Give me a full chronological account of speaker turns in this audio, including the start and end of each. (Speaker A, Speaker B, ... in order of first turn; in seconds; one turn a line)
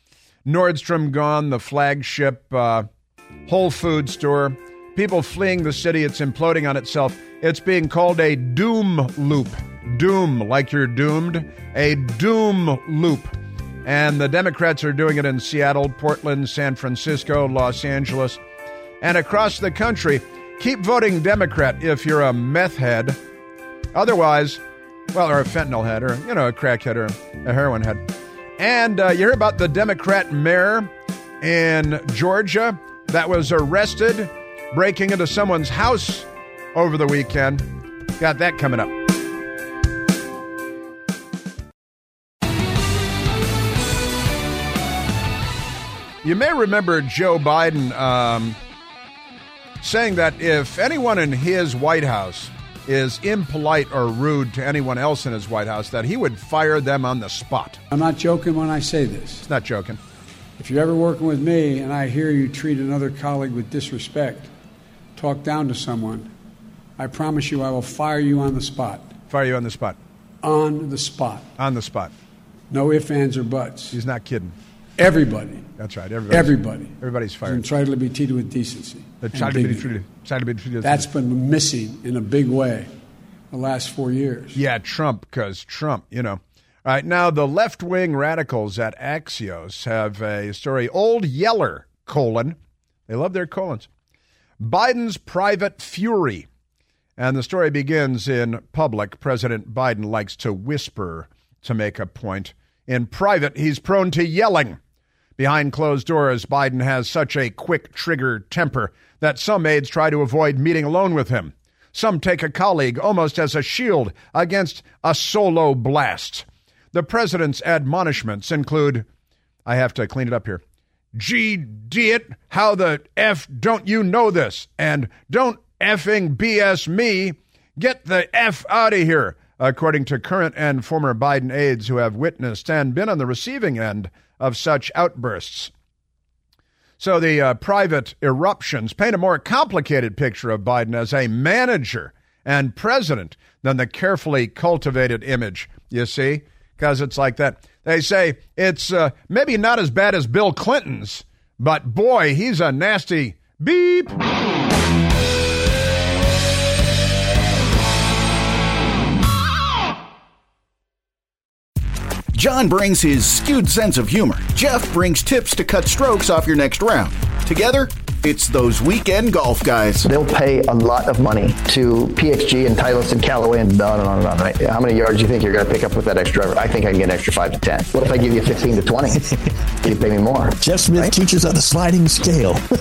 Speaker A: 0.5-2.9
Speaker A: 3.5-18.4
Speaker A: 19.0-23.2
Speaker A: 23.9-39.0
Speaker A: 46.2-48.6
Speaker A: 49.8-57.8
Speaker B: 57.9-59.5
Speaker A: 59.4-60.0
Speaker B: 60.6-64.5
Speaker B: 65.2-66.3
Speaker B: 67.0-69.1
Speaker A: 69.3-70.0
Speaker B: 70.4-71.5
Speaker A: 71.6-72.1
Speaker B: 72.7-74.0
Speaker A: 73.9-74.6
Speaker B: 75.0-75.7
Speaker A: 75.8-77.6
Speaker B: 76.3-79.9
Speaker A: 79.2-81.1
Speaker B: 80.8-82.9
Speaker B: 83.5-84.6
Speaker A: 84.5-92.6
Speaker A: 93.1-93.9
Speaker A: 94.6-96.5
Speaker A: 97.2-104.8
Speaker A: 105.4-119.0
Speaker A: 119.7-120.6
Speaker A: 121.1-135.7
Speaker A: 137.0-154.2
Speaker C: 162.3-170.1
Speaker D: 170.1-180.6
Speaker E: 180.6-182.6